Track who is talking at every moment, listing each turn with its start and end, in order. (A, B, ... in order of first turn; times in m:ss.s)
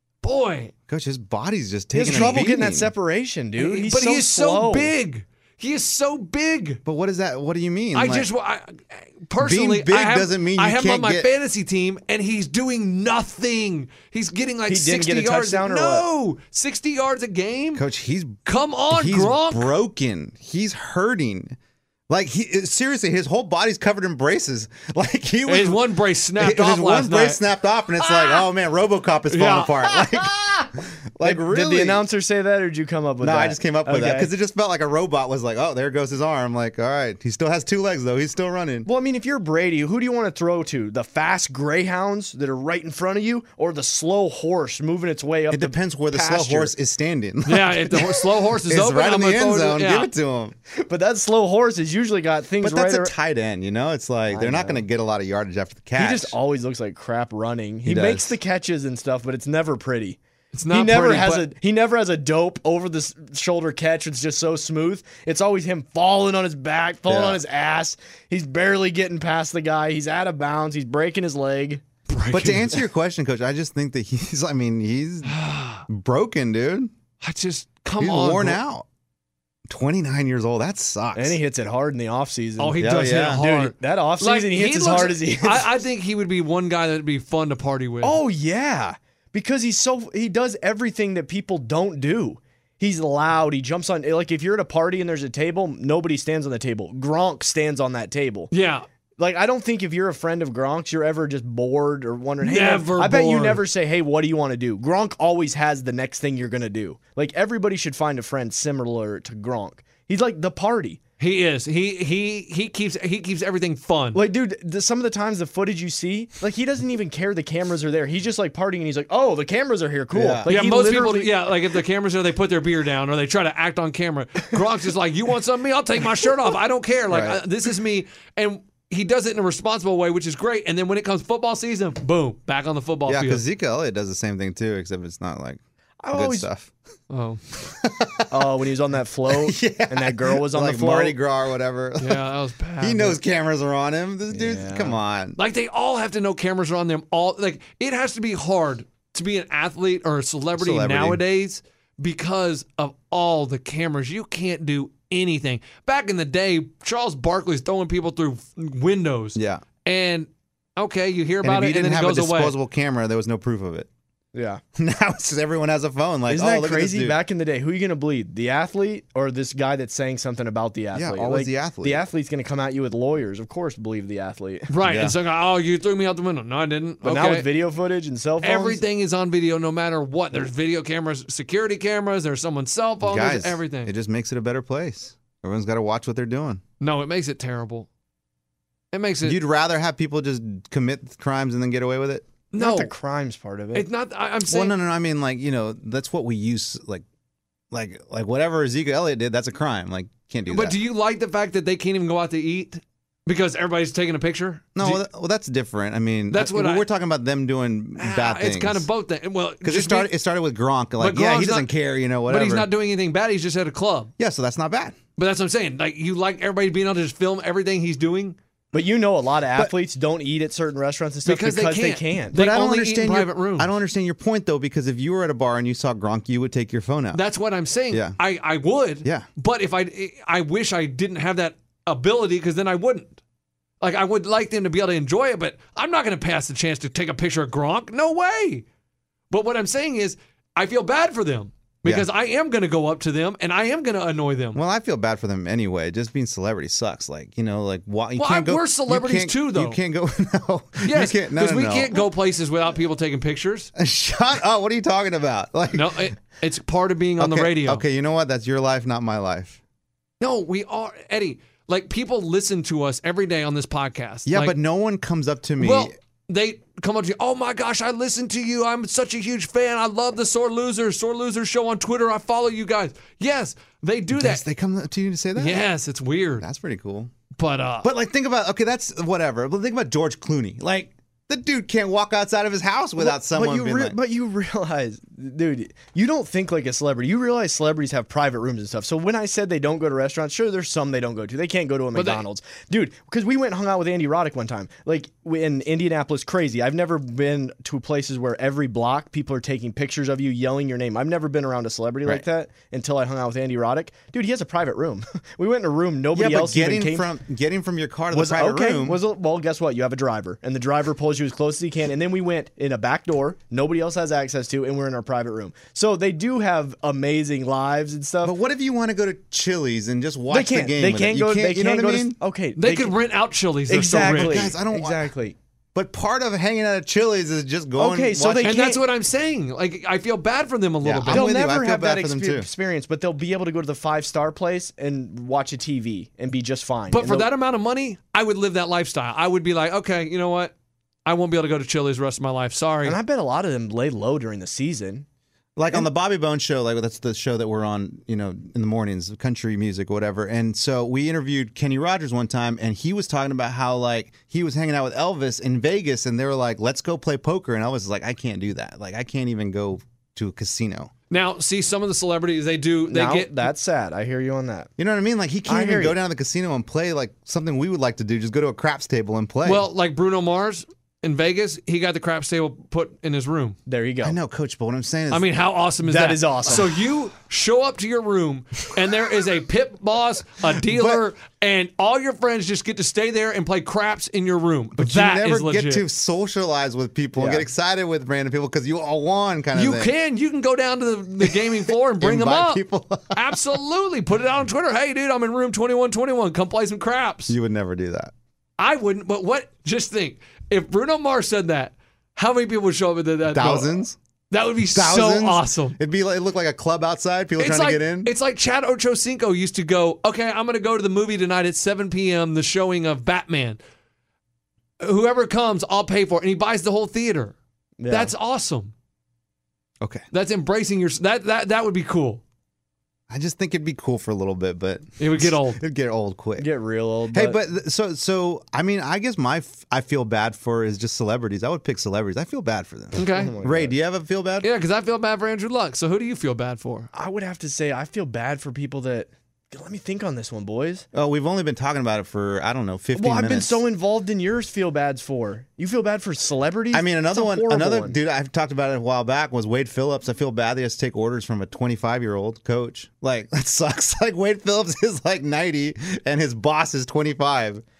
0:00.2-0:00.7 A
0:00.9-0:02.9 B
0:01.9-0:04.9 C
0:02.0-0:02.3 A
0:03.6-0:06.8 A
0:06.8-0:08.3 B
0:07.9-0:17.8 A
0:09.4-0:11.3 B
0:14.7-0:16.0 C
0:17.7-0:18.4 B
0:18.4-0:19.7 A
0:18.9-0:21.6 B
0:22.1-0:32.0 B
0:25.4-0:27.4 A
0:28.0-0:28.4 A
0:29.3-0:30.1 A
0:31.2-0:34.3 C
0:33.2-0:38.9 B
0:38.8-0:46.7 C
0:45.5-0:50.6 B
0:47.4-0:50.1 A
0:50.7-0:53.1 C
0:52.6-0:56.4 B
0:54.3-0:54.8 C
0:56.0-1:00.2 C
0:57.8-0:58.4 B
1:00.5-1:01.5 A
1:00.7-1:11.8 C
1:07.1-1:07.4 B
1:12.1-1:12.8 A
1:12.3-1:15.3 B
1:15.2-1:15.8 A
1:15.9-1:16.9 B
1:17.2-1:18.6 A
1:18.0-1:18.8 B
1:19.7-1:21.4 B
1:21.1-1:25.7 C
1:22.6-1:28.2 A
1:22.8-1:23.4 B
1:28.0-1:38.5 C
1:38.5-1:38.8 A
1:39.2-1:51.0 C
1:42.4-1:43.6 A
1:51.2-1:54.2 A
1:54.1-2:01.3 C
2:00.1-2:00.5 B
2:00.5-2:13.4 A
2:07.1-2:07.4 B
2:13.1-2:15.6 B
2:16.0-2:16.5 C
2:16.1-2:16.7 B
2:17.1-2:17.4 A
2:17.6-2:18.5 B
2:18.3-2:21.2 C
2:19.3-2:22.2 B
2:22.0-2:23.2 A
2:22.8-2:25.4 B
2:24.3-2:25.0 C
2:25.4-2:42.5 A
2:30.6-2:31.2 B
2:39.4-2:39.6 B
2:41.4-2:43.9 B
2:44.3-2:44.6 C
2:44.8-2:47.2 B
2:46.3-2:54.7 C
2:50.9-2:52.0 B
2:54.7-2:57.4 A
2:54.8-2:55.1 B
2:57.0-2:58.8 C
2:58.4-3:03.9 A
3:03.0-3:06.6 B
3:06.8-3:07.9 A
3:08.9-3:09.4 A
3:09.2-3:12.3 B
3:12.5-3:12.9 A
3:12.6-3:13.8 C
3:13.7-3:14.7 A
3:14.4-3:17.0 B
3:17.7-3:20.8 B
3:20.5-3:25.0 A
3:24.8-3:28.9 B
3:26.3-3:26.8 A
3:28.0-3:30.1 A
3:29.6-3:32.7 B
3:31.0-3:31.7 A
3:32.3-3:34.1 A
3:34.2-3:35.0 B
3:35.2-3:38.4 A
3:38.7-3:42.4 C
3:41.2-3:43.7 A
3:42.3-3:47.2 B
3:47.1-3:53.2 A
3:47.9-3:48.2 B
3:53.8-3:58.6 A
3:59.3-4:04.6 A
4:04.5-4:12.1 B
4:08.2-4:09.8 A
4:10.8-4:13.7 A
4:13.8-4:16.1 B
4:15.7-4:17.8 A
4:17.2-4:19.6 B
4:20.2-4:24.5 A
4:24.2-4:25.9 B
4:25.6-4:34.4 A
4:34.1-4:35.6 B
4:35.4-4:36.4 A
4:36.4-4:37.1 B
4:37.4-4:37.9 A
4:37.8-4:44.0 B
4:43.0-5:07.1 C
4:51.9-4:52.2 A
5:06.1-5:09.0 B
5:08.1-5:18.3 C
5:18.2-5:22.2 B
5:20.3-5:23.0 C
5:22.6-5:24.5 A
5:23.7-5:25.4 C
5:24.1-5:25.1 B
5:25.7-5:28.5 B
5:27.8-5:28.8 C
5:28.4-5:31.3 A
5:30.8-5:32.5 B
5:31.1-5:37.3 C
5:36.9-5:40.5 A
5:41.0-5:43.0 A
5:42.8-5:45.0 C
5:45.6-6:00.9 B
6:01.1-6:03.5 A
6:02.9-6:04.7 C
6:04.8-6:09.7 B
6:05.5-6:06.0 C
6:09.4-6:13.6 A
6:13.7-6:14.2 C
6:14.0-6:15.2 B
6:15.1-6:25.8 A
6:15.8-6:16.8 C
6:20.4-6:21.0 B
6:24.8-6:29.9 B
6:27.2-6:27.5 C
6:29.5-6:32.6 A
6:31.2-6:33.4 B
6:33.1-6:37.3 A
6:37.3-6:38.1 B
6:38.6-6:43.8 A
6:43.3-6:44.0 B
6:44.3-6:45.8 A
6:44.7-6:48.1 B
6:47.4-6:53.6 A
6:54.8-6:57.3 A
6:57.8-6:58.1 C
6:57.9-6:58.7 A
7:00.1-7:02.2 A
7:03.1-7:06.5 B
7:05.0-7:05.6 A
7:06.4-7:07.4 C
7:07.1-7:14.5 B
7:13.0-7:13.3 A
7:13.1-7:13.7 C
7:14.4-7:16.9 A
7:16.9-7:20.8 C
7:20.9-7:23.6 B
7:22.9-7:28.0 C
7:26.7-7:37.6 B